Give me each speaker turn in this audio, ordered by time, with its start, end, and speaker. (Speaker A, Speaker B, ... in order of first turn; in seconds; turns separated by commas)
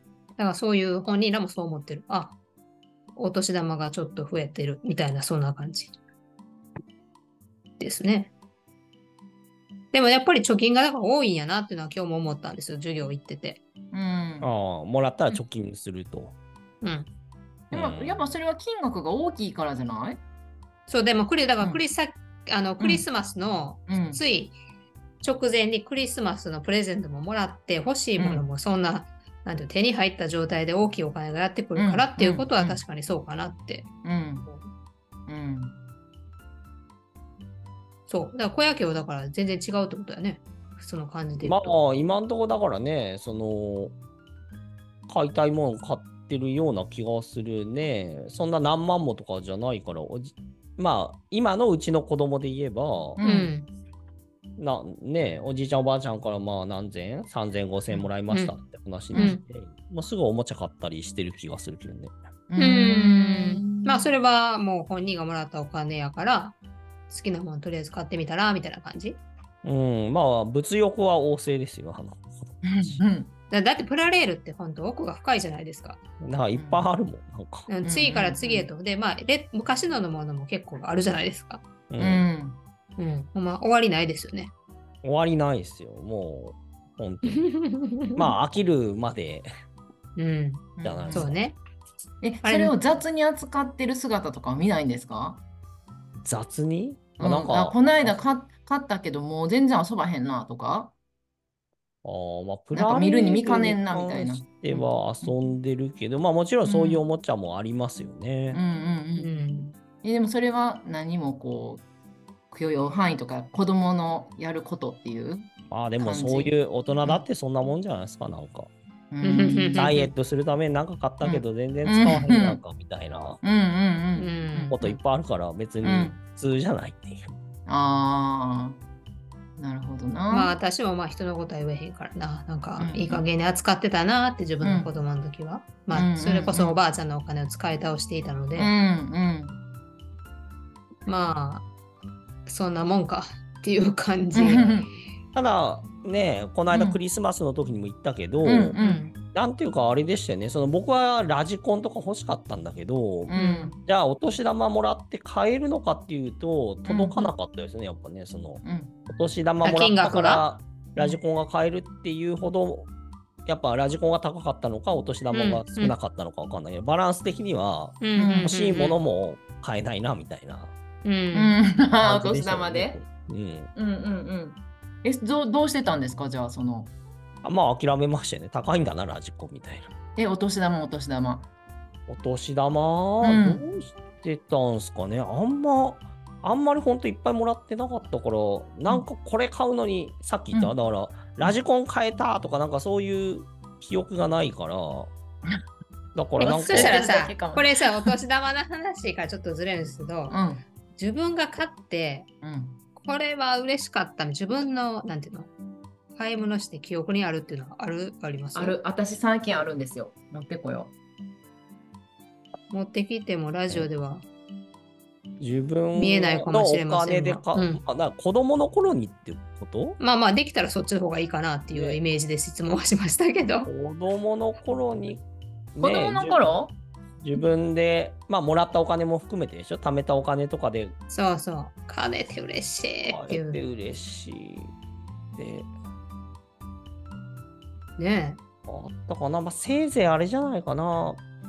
Speaker A: 0.4-2.4, Speaker A: 3.2-6.0, Speaker A: 7.8-8.3, Speaker A: 9.9-13.6, Speaker B: 13.9-14.5, Speaker C: 14.4-16.4, Speaker A: 16.8-17.1, Speaker C: 17.7-18.3, Speaker B: 17.7-20.2, Speaker A: 20.9-24.6, Speaker B: 22.8-23.1, Speaker B: 23.9-24.2, Speaker A: 25.2-33.9, Speaker B: 28.2-28.5, Speaker B: 31.8-32.8, Speaker B: 34.0-34.5, Speaker B: 35.3-35.8, Speaker A: 38.1-41.8, Speaker C: 41.4-43.9, Speaker C: 45.1-53.2, Speaker B: 53.2-53.5, Speaker A: 53.2-53.7, Speaker C: 54.6-62.1, Speaker B: 59.1-59.4, Speaker A: 59.1-59.4, Speaker B: 62.5-64.1, Speaker A: 62.6-66.5, Speaker A: 67.1-69.2, Speaker C: 69.6-73.0, Speaker B: 72.6-73.3, Speaker A: 73.5-76.0, Speaker C: 76.2-77.7, Speaker B: 76.5-76.9, Speaker A: 77.7-81.6, Speaker B: 77.8-78.7, Speaker C: 81.9-82.2, Speaker B: 82.0-82.6, Speaker A: 83.0-84.5, Speaker C: 85.0-87.5, Speaker A: 87.3-88.2, Speaker C: 88.1-89.5, Speaker A: 90.2-91.6, Speaker B: 90.8-91.3, Speaker C: 90.8-91.4, Speaker B: 92.2-95.4, Speaker A: 92.4-92.8, Speaker C: 96.2-98.2, Speaker B: 97.2-100.9, Speaker C: 102.0-108.6, Speaker B: 102.7-105.3, Speaker B: 106.6-107.0, Speaker B: 108.5-111.8, Speaker A: 109.2-109.7, Speaker B: 112.5-117.3, Speaker C: 115.7-118.7, Speaker B: 119.1-120.1, Speaker A: 119.2-120.0, Speaker C: 119.8-123.4, Speaker B: 121.2-122.6, Speaker B: 123.4-125.0, Speaker A: 124.2-124.8, Speaker C: 124.7-127.3, Speaker B: 125.8-126.2, Speaker B: 127.7-128.8, Speaker B: 129.6-130.6, Speaker A: 130.3-138.7, Speaker B: 132.8-133.2, Speaker B: 134.6-134.9, Speaker B: 135.9-136.8, Speaker B: 138.6-139.6, Speaker A: 141.1-141.7, Speaker A: 142.5-144.7, Speaker B: 144.3-144.9, Speaker C: 144.5-148.8, Speaker B: 146.7-147.0, Speaker B: 148.4-149.1, Speaker A: 148.8-149.1, Speaker C: 149.3-162.9, Speaker B: 153.3-153.8, Speaker A: 153.3-153.7, Speaker B: 156.9-157.3, Speaker B: 158.6-159.0, Speaker A: 159.6-160.4, Speaker C: 163.5-170.7, Speaker A: 165.3-165.9, Speaker A: 168.0-169.0, Speaker B: 168.2-168.5, Speaker A: 171.1-171.6, Speaker B: 171.3-173.0, Speaker C: 172.0-173.7, Speaker B: 173.8-176.9, Speaker C: 177.4-179.9, Speaker B: 180.2-181.5, Speaker C: 182.1-195.1, Speaker B: 183.2-183.6, Speaker C: 196.2-197.0, Speaker A: 196.4-200.4, Speaker B: 196.4-198.2, Speaker B: 200.3-200.6, Speaker A: 201.0-202.3, Speaker B: 202.4-202.8, Speaker A: 203.0-205.5, Speaker A: 206.2-208.8, Speaker B: 208.5-210.9, Speaker A: 212.7-214.2, Speaker C: 215.4-220.0, Speaker A: 215.9-217.8, Speaker A: 220.0-223.7, Speaker C: 221.7-222.0, Speaker C: 223.7-226.4, Speaker B: 225.8-226.8, Speaker C: 227.2-231.0, Speaker A: 231.1-233.6, Speaker C: 233.1-234.7, Speaker C: 235.4-235.7, Speaker A: 238.0-238.4, Speaker C: 238.7-241.2